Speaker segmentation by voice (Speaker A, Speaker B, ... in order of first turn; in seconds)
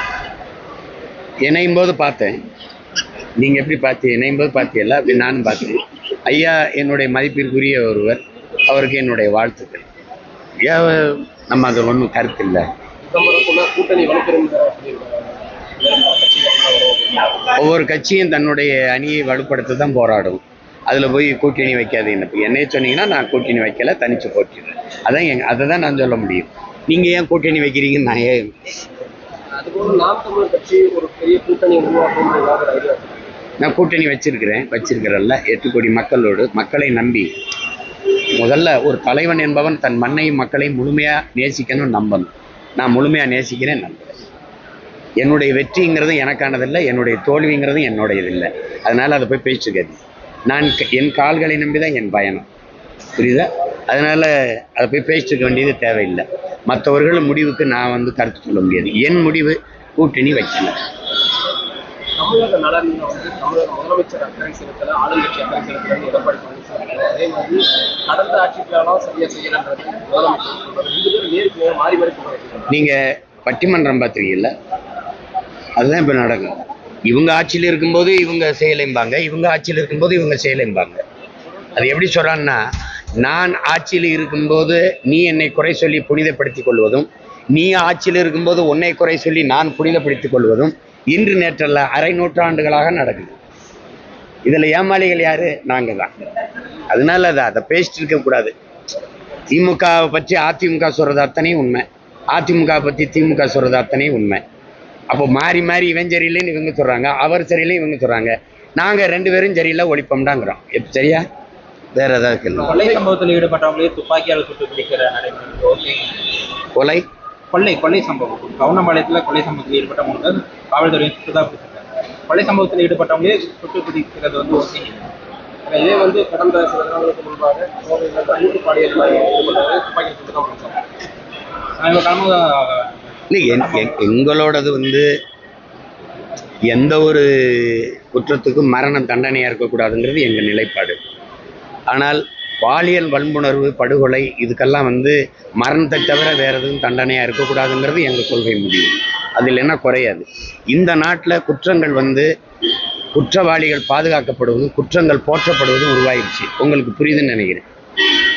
Speaker A: 1.4-2.3, 3.4-9.8, 10.6-12.6, 17.5-28.5, 33.6-37.3, 38.4-44.1, 45.2-52.5, 53.1-60.8, 72.7-74.5, 75.8-76.5, 77.1-81.0, 81.8-82.6, 83.2-93.4, 94.4-96.1, 96.9-98.5, 99.5-104.4, 105.1-111.2, 111.9-112.8, 116.7-117.0, 133.3-135.1, 136.7-141.0, 141.9-152.3, 153.1-157.7
Speaker B: 13.0-17.3, 29.6-33.2, 62.2-72.7, 125.7-130.8
Speaker C: 112.6-116.1, 117.5-125.0, 131.8-134.0